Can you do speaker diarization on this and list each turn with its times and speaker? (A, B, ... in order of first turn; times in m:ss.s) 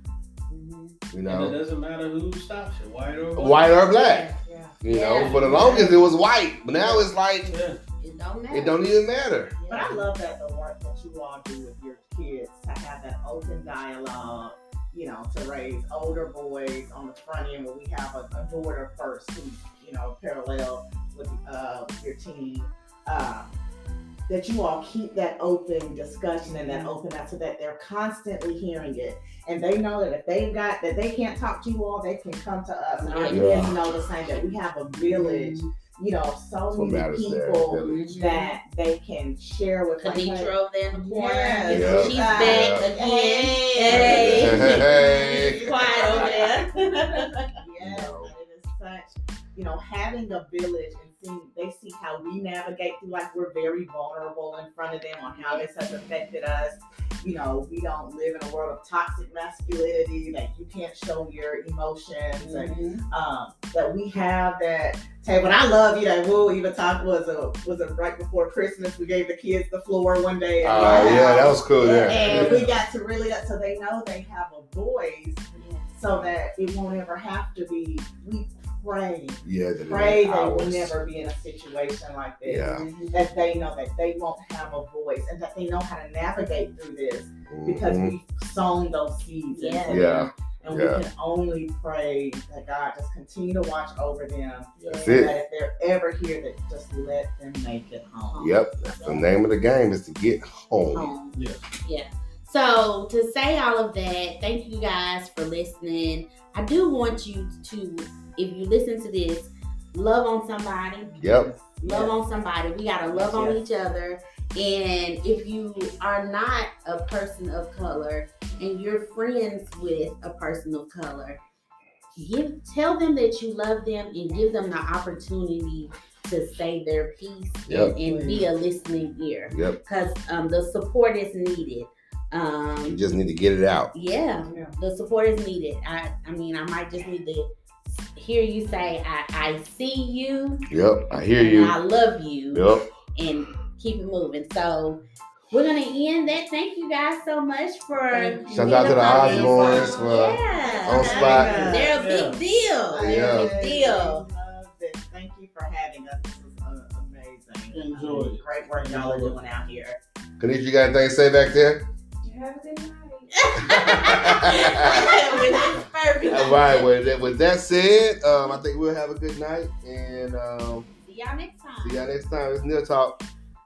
0:00.5-0:01.0 A
0:01.1-0:01.6 B
0:01.2-0:03.7 C
0:03.4-0:04.3 B
0:03.9-0:06.0 A
0:04.4-0:04.8 D
0:04.8-0:07.5 B
0:05.2-0:06.0 C
0:06.8-0:07.8 C
0:08.0-0:08.8 A
0:08.5-0:09.5 B
0:09.5-0:10.1 A
0:09.7-0:23.6 D
0:24.3-1:38.4 D
0:26.5-0:26.9 A
0:33.0-0:33.7 A
0:33.3-0:33.8 B
0:35.1-0:35.7 A
0:36.7-0:38.0 B
0:37.8-0:38.6 A
0:40.0-0:47.5 A
0:41.7-0:42.9 B
0:43.9-0:45.9 B
0:47.8-0:48.3 B
0:55.3-0:55.6 A
1:02.4-1:03.0 A
1:10.6-1:12.7 B
1:10.6-1:12.7 A
1:15.5-1:15.9 A
1:19.4-1:21.0 B
1:22.4-1:22.8 B
1:22.6-1:23.4 A
1:27.5-1:28.1 B
1:29.5-1:30.3 A
1:29.9-1:31.0 B
1:34.8-1:35.3 A
1:34.9-1:35.3 B
1:38.3-1:39.2 A
1:38.4-1:41.1 B
1:40.9-1:51.1 A
1:41.3-1:41.6 C
1:51.0-1:52.2 D
1:51.2-1:51.5 B
1:51.8-2:01.4 A
1:53.0-1:53.6 D
2:02.2-2:13.0 A
2:07.7-2:07.9 B
2:08.0-2:08.4 D
2:09.5-2:09.8 B
2:12.9-2:13.9 B
2:13.9-2:20.6 A
2:14.4-2:14.8 D
2:20.7-2:21.8 B
2:21.3-2:25.0 A
2:22.5-2:22.9 B
2:25.5-2:34.2 A
2:28.1-2:32.3 D
2:28.5-2:31.7 B
2:29.0-2:30.1 C
2:31.3-2:32.4 C
2:32.9-2:40.0 D
2:33.0-2:33.6 B
2:37.7-2:39.4 C
2:40.4-2:41.8 B
2:42.2-2:45.6 D
2:43.4-2:46.9 A
2:43.7-2:45.2 B
2:46.3-2:50.9 B
2:51.0-2:52.1 A
2:51.8-2:53.2 B